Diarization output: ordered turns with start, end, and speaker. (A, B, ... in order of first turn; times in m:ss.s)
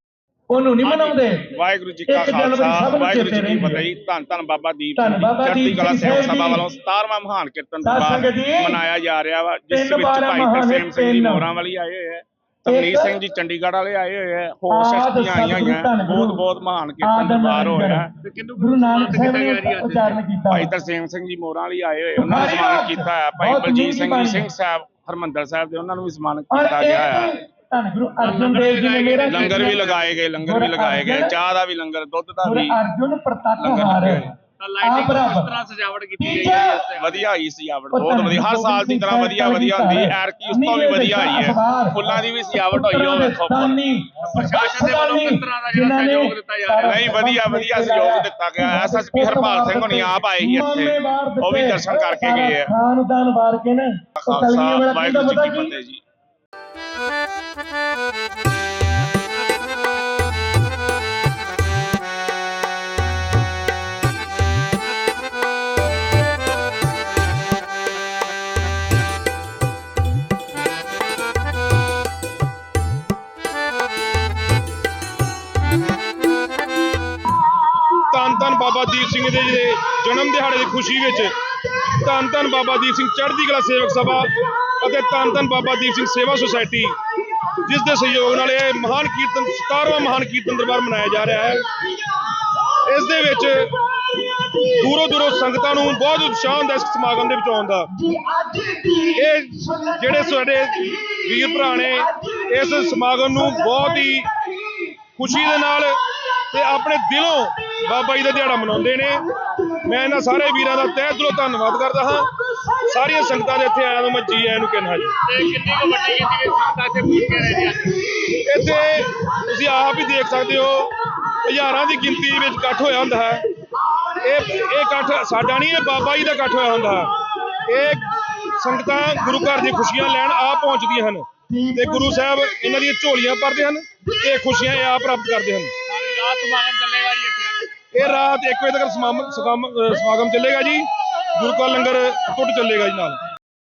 0:00.5-0:01.5 A
0:00.8-0:18.1 B
0:02.1-0:03.8 A
0:05.0-0:06.6 A
0:07.8-0:08.8 A
0:09.7-0:11.5 A
0:12.6-0:13.2 A
0:14.7-0:16.4 A
0:17.0-0:18.1 A
0:18.2-0:20.2 C
0:18.6-0:20.7 A
0:20.5-0:27.3 B
0:22.2-0:24.5 A
0:26.5-0:29.8 A
0:28.2-0:30.1 C
0:29.3-0:32.8 B
0:30.4-0:31.4 A
0:32.4-0:34.3 A
0:33.6-0:34.3 B
0:34.6-0:37.2 C
0:34.8-0:35.5 A
0:36.2-0:36.8 A
0:37.0-0:43.8 B
0:37.9-0:55.7 A
0:44.3-0:47.1 C
0:46.8-0:52.7 B
0:54.2-0:56.0 B
1:18.0-1:27.0 D
1:27.6-1:31.7 D
1:32.5-1:33.7 D
1:34.4-1:37.9 D
1:38.1-1:39.1 A
1:39.1-1:44.3 D
1:45.2-1:52.3 D
1:52.8-1:55.1 D
1:55.2-1:58.2 C
1:58.3-2:03.4 D
2:04.1-2:07.1 D
2:07.6-2:15.7 D
2:15.9-2:17.7 C
2:17.9-2:23.2 D